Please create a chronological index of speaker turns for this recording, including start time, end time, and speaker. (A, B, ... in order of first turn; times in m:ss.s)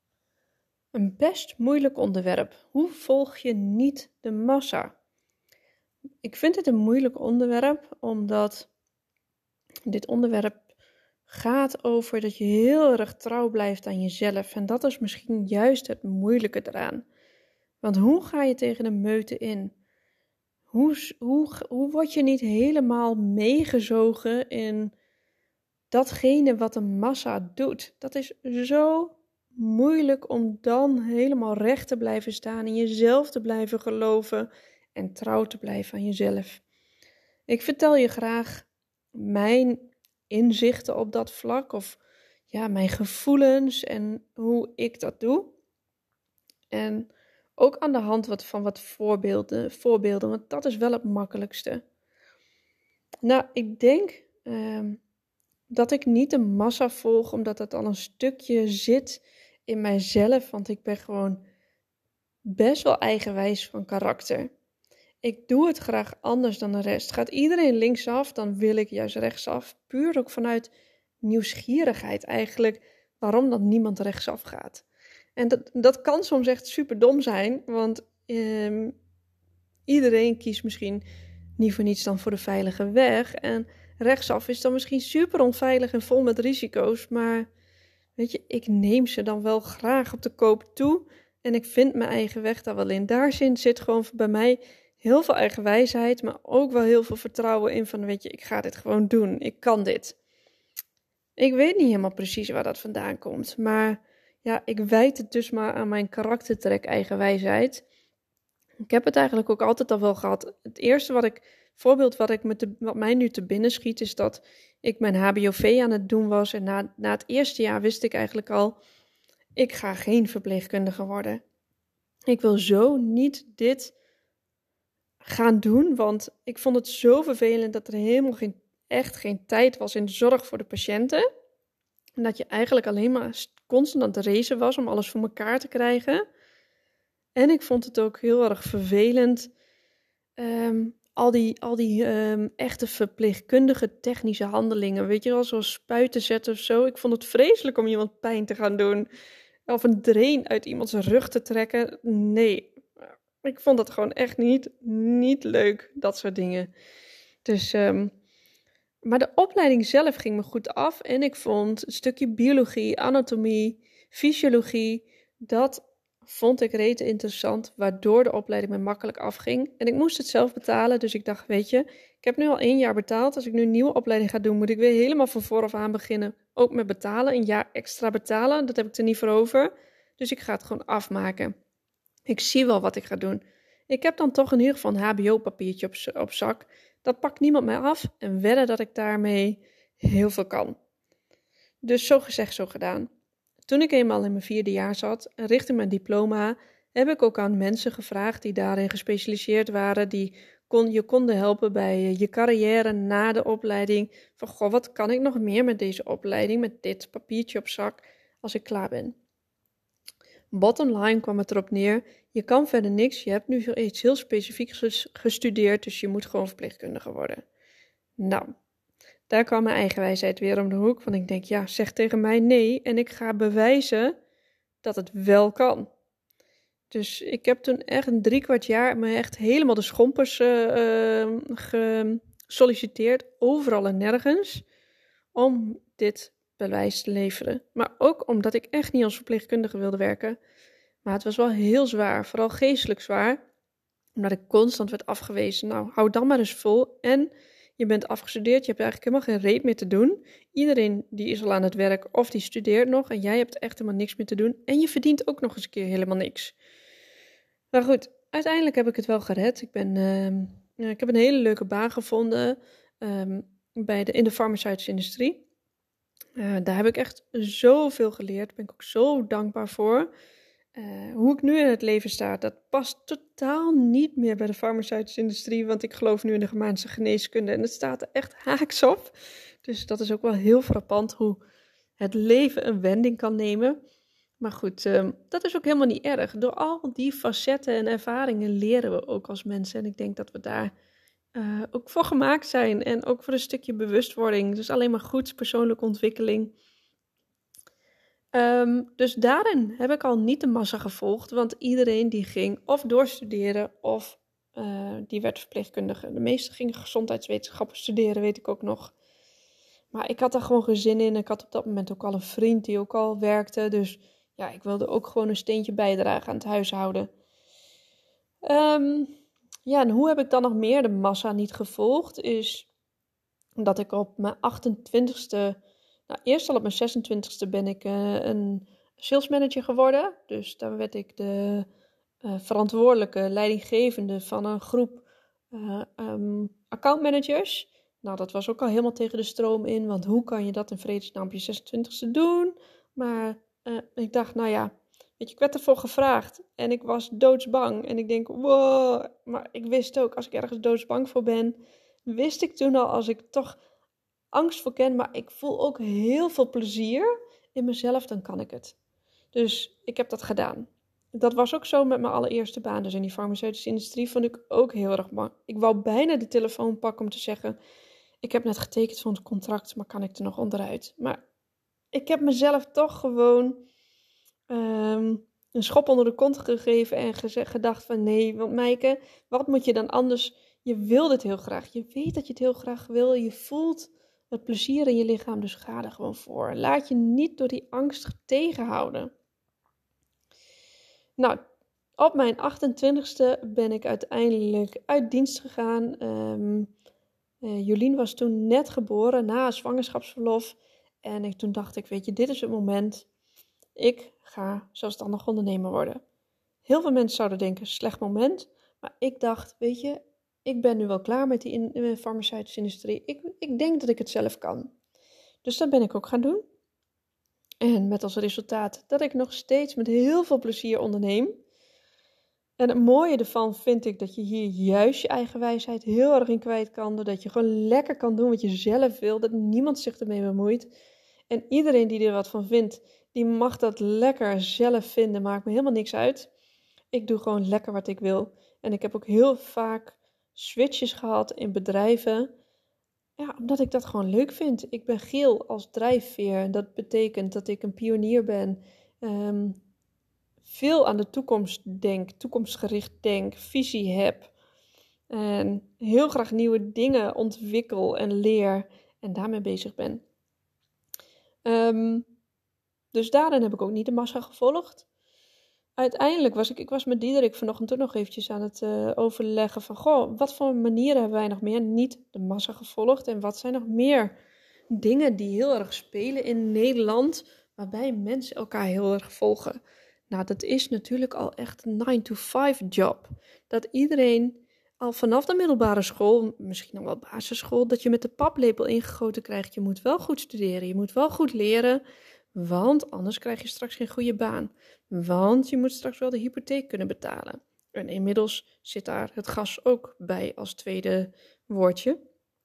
0:00.9-0:04.9 A
0:06.2-0:08.7 A
0:09.9-0:10.7 A
0:11.3-0:17.0 A
0:17.8-0:19.7 A
0:20.7-0:24.9 A
0:25.9-0:36.6 A
0:37.5-0:42.0 A
0:42.5-0:45.6 A
0:46.7-0:51.8 A
0:53.2-0:55.0 A
0:55.7-1:01.4 A
1:02.4-1:04.5 A
1:05.2-1:14.8 A
1:15.4-1:19.0 A
1:19.9-1:21.0 A
1:21.6-1:27.5 A
1:28.2-1:40.2 A
1:41.4-1:47.8 A
1:48.9-1:58.8 A
1:59.6-2:01.4 A
2:02.3-2:03.9 A
2:05.2-2:11.3 A
2:12.2-2:16.2 A
2:17.4-2:19.5 A
2:20.4-2:29.1 A
2:29.7-2:32.8 A
2:33.4-2:36.7 A
2:37.4-2:38.1 A
2:39.0-3:01.6 A
3:02.3-3:10.8 A
3:11.8-3:13.1 A
3:13.7-3:29.2 A
3:30.5-3:37.4 A
3:38.2-3:38.5 A
3:39.3-3:44.2 A
3:44.8-3:45.9 A
3:46.9-3:54.6 A
3:55.3-4:00.4 A
4:01.0-4:03.4 A
4:04.2-4:16.6 A
4:17.7-4:25.4 A
4:26.4-4:30.1 A
4:30.8-4:41.4 A
4:42.0-4:43.8 A
4:44.4-4:50.7 A
4:51.3-4:56.5 A
4:58.3-5:08.9 A
5:09.9-5:17.1 A
5:18.4-5:19.1 A
5:19.7-5:22.7 A
5:23.6-5:31.7 A
5:32.2-5:53.6 A
5:54.3-5:58.8 A
5:59.3-6:07.6 A
6:08.2-6:11.2 A
6:11.9-6:13.6 A
6:14.5-6:29.1 A
6:32.0-6:36.7 A
6:37.4-6:43.1 A
6:43.8-6:46.0 A
6:46.6-6:54.7 A
6:55.4-6:56.4 A
6:57.6-7:01.4 A
7:02.6-7:10.7 A
7:11.3-7:16.3 A
7:16.9-7:22.3 A
7:23.2-7:29.6 A
7:30.4-7:34.3 A
7:35.1-7:40.0 A
7:41.4-7:42.1 A
7:42.9-7:44.8 A
7:45.8-7:54.1 A
7:54.7-7:59.6 A
8:00.1-8:11.8 A
8:12.3-8:22.0 A